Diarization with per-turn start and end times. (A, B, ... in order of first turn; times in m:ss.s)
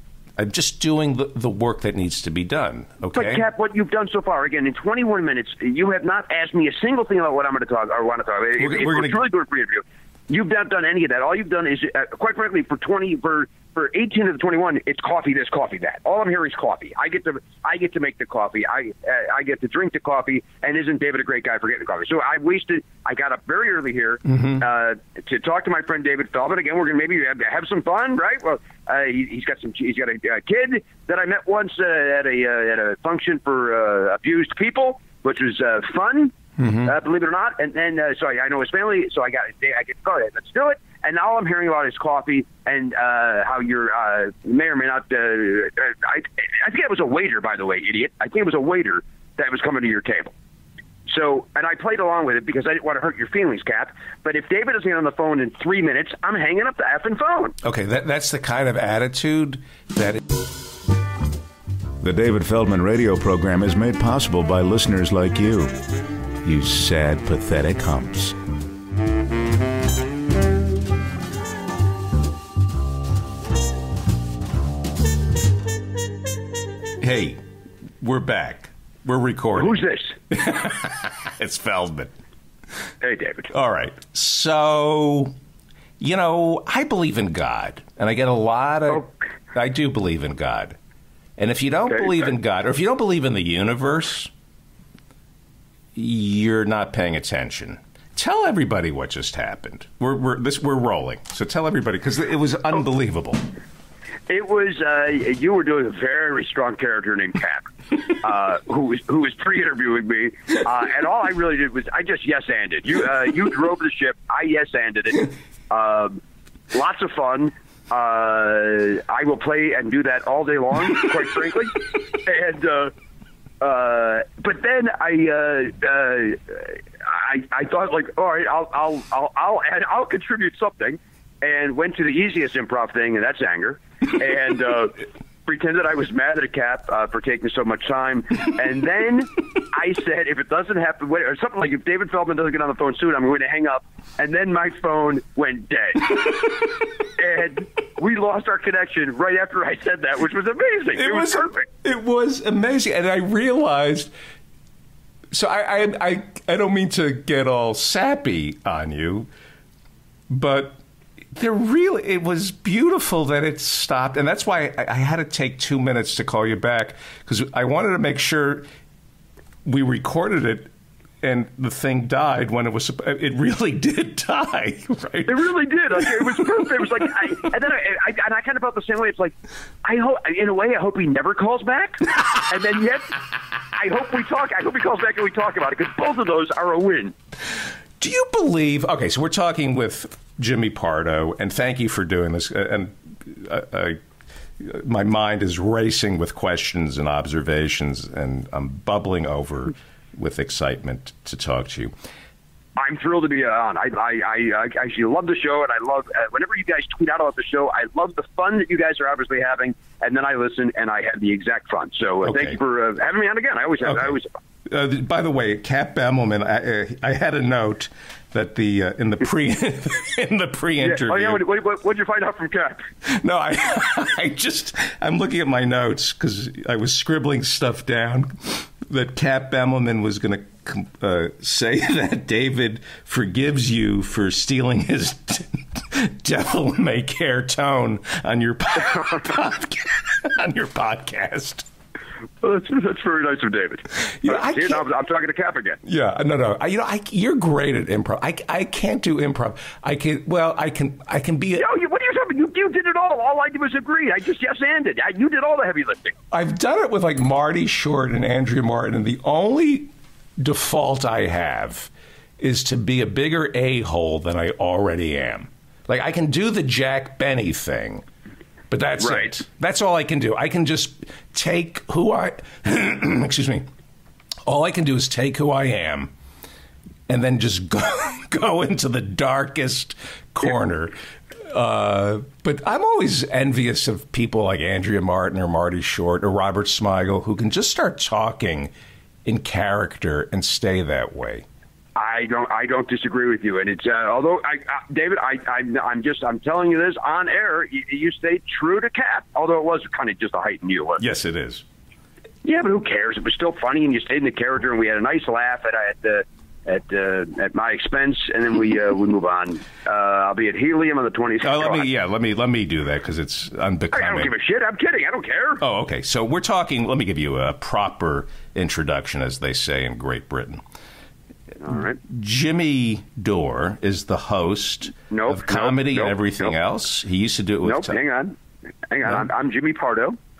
0:00.4-0:03.4 A
0:03.1-0:50.3 B
0:08.6-0:09.2 A
0:24.2-0:24.6 A
0:36.6-0:36.9 A
0:51.0-0:57.5 B
0:57.6-1:00.2 A
1:02.0-1:05.7 C
1:06.4-1:08.4 C
1:17.0-1:17.4 A
1:18.0-1:22.1 A
1:19.5-1:20.2 B
1:23.0-1:23.5 B
1:23.5-1:25.3 A
1:26.0-1:30.8 A
1:31.4-1:34.3 A
1:36.0-1:43.4 A
1:44.3-2:02.9 B
2:03.6-2:31.6 B
2:31.0-2:34.1 A
2:35.3-2:39.3 A
2:40.3-2:40.8 A
2:41.3-2:48.7 A
2:49.6-2:50.7 A
2:51.2-2:56.1 A
2:55.2-3:07.1 B
3:08.0-3:14.0 A
3:14.6-3:21.9 A
3:22.8-3:34.3 B
3:32.2-3:32.6 A
3:34.6-3:41.4 A
3:40.8-3:42.8 B
3:43.0-4:01.6 A
4:02.4-4:05.8 B
4:04.0-4:04.8 A
4:05.8-4:11.6 A
4:11.6-4:16.1 B
4:16.3-4:28.0 A
4:28.7-4:33.6 A
4:29.0-4:29.3 B
4:34.4-4:36.1 A
4:37.1-4:40.9 A
4:41.5-4:48.7 A
4:49.2-4:51.4 A
4:52.0-5:01.0 B
5:01.0-5:01.6 A
5:02.4-5:11.9 B
5:11.4-5:14.3 A
5:13.9-5:15.6 B
5:15.6-5:20.6 A
5:21.6-5:22.0 B
5:22.0-5:28.0 A
5:25.1-5:26.5 B
5:27.6-5:28.4 B
5:28.9-5:30.2 B